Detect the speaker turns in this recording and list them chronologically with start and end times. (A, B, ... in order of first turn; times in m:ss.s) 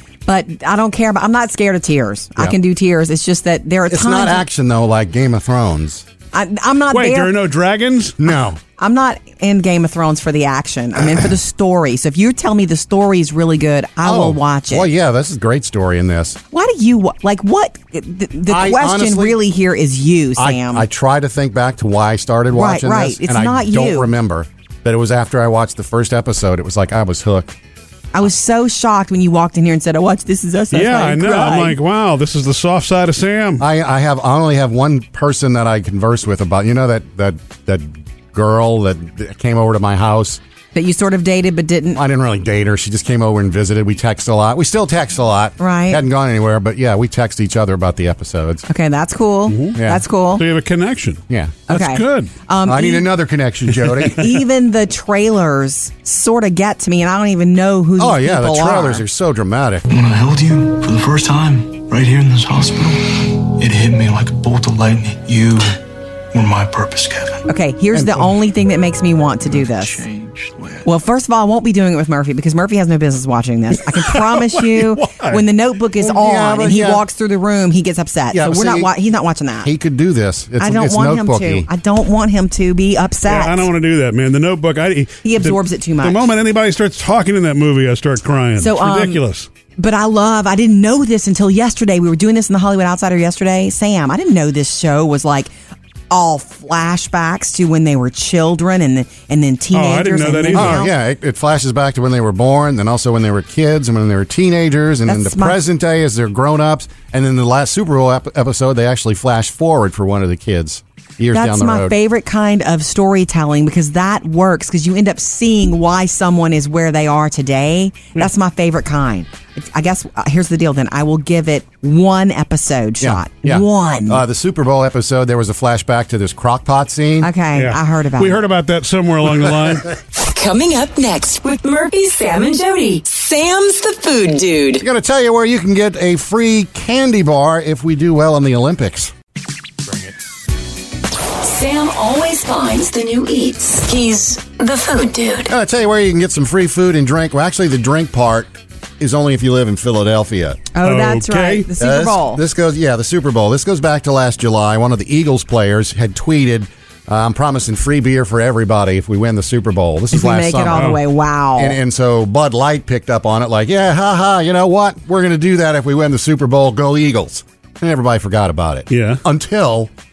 0:00.3-0:04.4 A
0:03.9-0:06.0 B
0:06.3-0:07.3 A
0:06.9-0:08.2 C
0:08.2-0:08.6 B
0:08.8-0:14.9 A
0:14.0-0:16.4 B
0:16.5-0:20.8 A
0:18.5-0:19.4 B
0:20.4-0:27.6 B
0:22.5-0:24.1 A
0:28.1-0:31.8 A
0:30.7-0:33.6 C
0:33.6-0:40.4 B
0:40.7-0:42.0 A
0:41.9-0:48.6 B
0:45.6-0:46.0 A
0:48.7-0:50.4 A
0:49.5-0:49.7 C
0:49.7-0:50.0 B
0:50.3-0:52.3 C
0:51.3-0:51.6 B
0:51.7-0:53.1 A
0:52.6-0:54.2 B
0:54.0-0:59.0 A
0:58.0-0:59.9 B
0:59.9-1:05.8 D
1:06.3-1:07.5 D
1:07.5-1:10.0 A
1:07.9-1:08.3 B
1:09.4-1:10.9 D
1:10.8-1:19.7 A
1:14.0-1:15.4 C
1:16.0-1:17.0 B
1:18.3-1:18.9 B
1:19.6-1:21.7 B
1:20.6-1:23.7 A
1:23.2-1:29.5 C
1:25.2-1:26.3 A
1:28.6-1:29.2 A
1:29.8-1:35.5 A
1:36.1-1:40.9 A
1:39.7-1:40.8 C
1:40.5-1:51.9 B
1:45.1-1:45.6 A
1:51.3-2:04.2 A
2:03.0-2:07.3 B
2:07.2-2:08.4 A
2:07.5-2:10.0 C
2:10.2-2:14.8 E
2:14.8-2:19.1 B
2:21.4-2:25.5 E
2:25.5-2:30.7 B
2:30.7-2:32.4 A
2:30.8-2:31.7 C
2:31.8-2:41.0 B
2:40.1-2:41.8 A
2:41.6-2:49.9 B
2:48.9-2:49.2 C